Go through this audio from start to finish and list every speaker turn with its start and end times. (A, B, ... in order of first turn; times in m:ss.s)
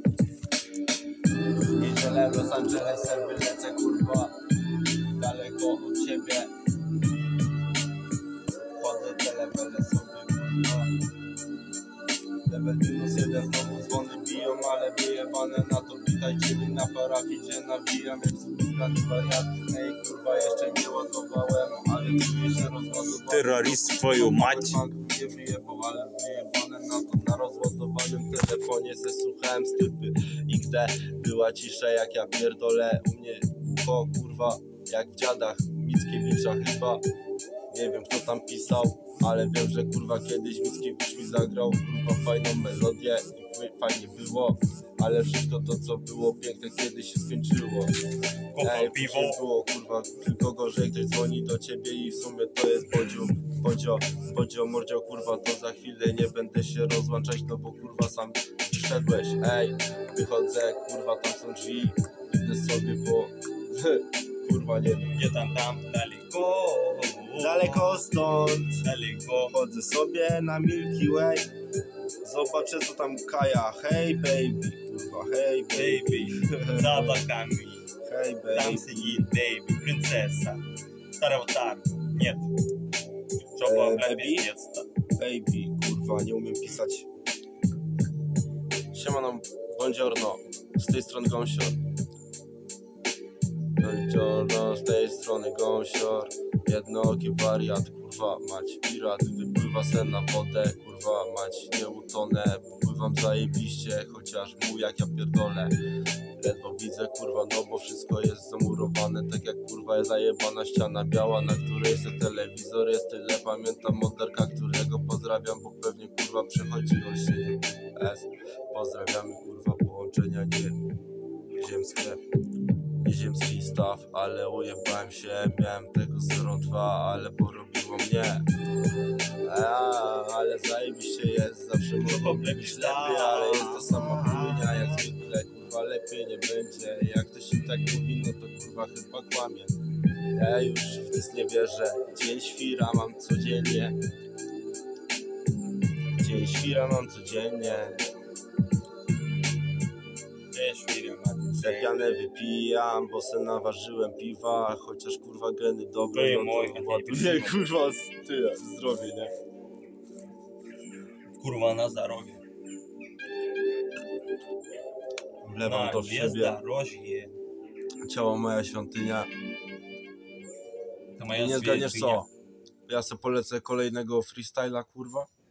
0:01.8-0:04.3 A
0:05.2-0:06.5 A
0:08.8-0:10.9 A
0:12.4-0:37.0 A
0:23.3-0:24.8 B
0:37.7-0:47.9 A
0:48.5-0:49.4 B
0:48.6-1:05.1 A
1:05.1-1:08.0 B
1:07.4-1:08.9 A
1:08.8-1:09.5 B
1:09.4-1:11.5 A
1:12.2-1:17.3 A
1:15.7-1:17.8 B
1:18.0-1:19.3 A
1:18.5-1:20.6 B
1:21.2-1:22.5 B
1:23.6-1:24.9 B
1:23.6-1:24.5 A
1:25.2-1:27.1 A
1:28.9-1:31.8 A
1:33.8-1:45.7 A
1:46.4-2:00.8 A
2:01.6-2:02.2 A
2:03.0-2:08.4 A
2:09.4-2:19.7 A
2:12.0-2:15.0 B
2:20.3-2:24.0 A
2:26.2-2:28.0 A
2:30.5-2:32.2 B
2:31.6-2:39.3 A
2:36.1-2:37.6 B
2:41.4-2:42.4 B
2:45.4-2:46.6 A
2:45.6-2:47.3 B
2:48.0-2:49.3 A
2:51.2-2:52.2 B
2:51.3-2:52.3 A
2:52.9-2:55.3 A